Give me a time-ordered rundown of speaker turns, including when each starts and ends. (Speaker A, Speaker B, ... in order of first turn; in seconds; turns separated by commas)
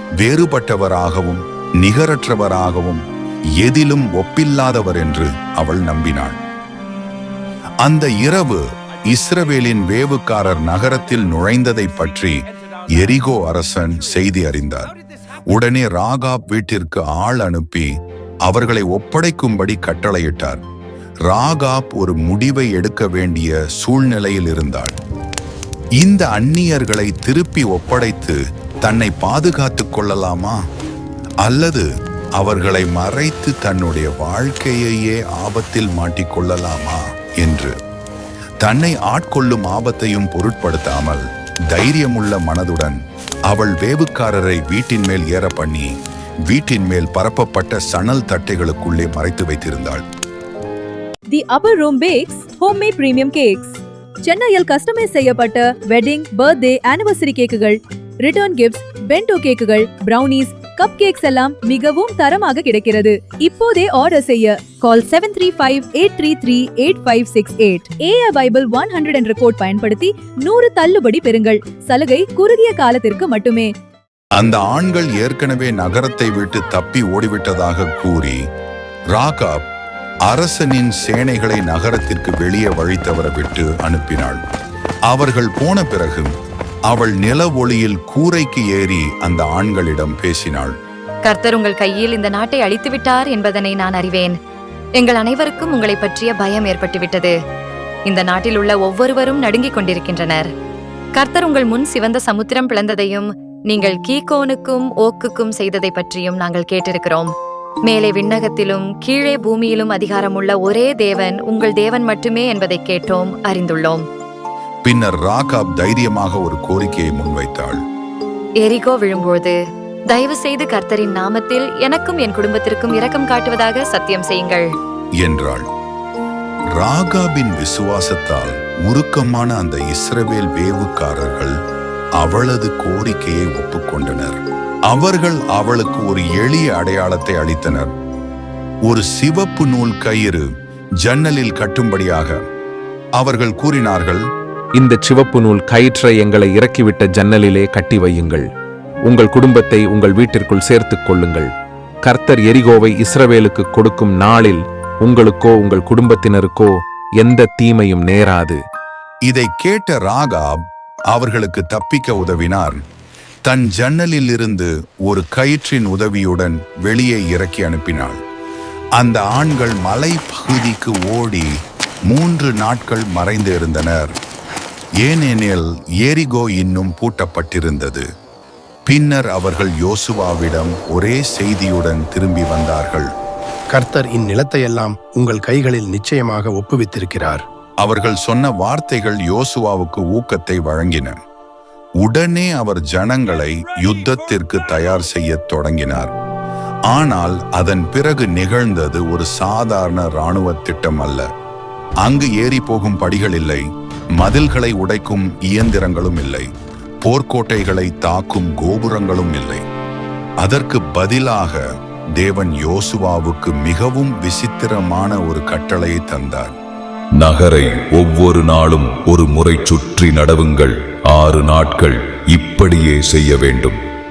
Speaker A: 0.2-3.0, Speaker A: 3.6-6.4, Speaker A: 7.8-14.9, Speaker A: 15.5-17.9, Speaker A: 18.5-20.6, Speaker A: 21.3-24.9, Speaker A: 26.0-30.6, Speaker A: 31.4-37.8, Speaker A: 38.6-43.0, Speaker A: 43.5-45.9, Speaker A: 46.5-50.0, Speaker B: 51.3-73.7, Speaker A: 74.4-78.4, Speaker A: 79.2-79.6, Speaker A: 80.3-84.4, Speaker A: 85.1-86.3, Speaker A: 86.9-90.8, Speaker C: 91.3-94.4, Speaker C: 95.0-97.4, Speaker C: 98.1-100.5, Speaker C: 101.2-107.3, Speaker C: 107.9-114.0, Speaker A: 114.9-117.8, Speaker C: 118.6-119.6, Speaker C: 120.1-124.7, Speaker A: 125.2-125.7, Speaker A: 126.8-131.6, Speaker A: 132.2-137.9, Speaker A: 138.9-140.5, Speaker A: 141.0-142.4, Speaker A: 143.2-144.3, Speaker D: 144.8-148.5, Speaker D: 149.1-151.5, Speaker D: 152.1-158.6, Speaker A: 159.3-162.8, Speaker A: 163.5-168.2, Speaker A: 169.0-171.5, Speaker A: 172.1-174.1, Speaker A: 175.0-178.1, Speaker A: 178.9-183.1, Speaker E: 183.7-187.4, Speaker A: 187.8-191.2, Speaker A: 192.0-196.1, Speaker A: 196.9-201.3, Speaker A: 202.0-206.5, Speaker A: 207.1-209.6, Speaker A: 210.4-211.6, Speaker A: 212.2-216.5, Speaker F: 217.2-223.8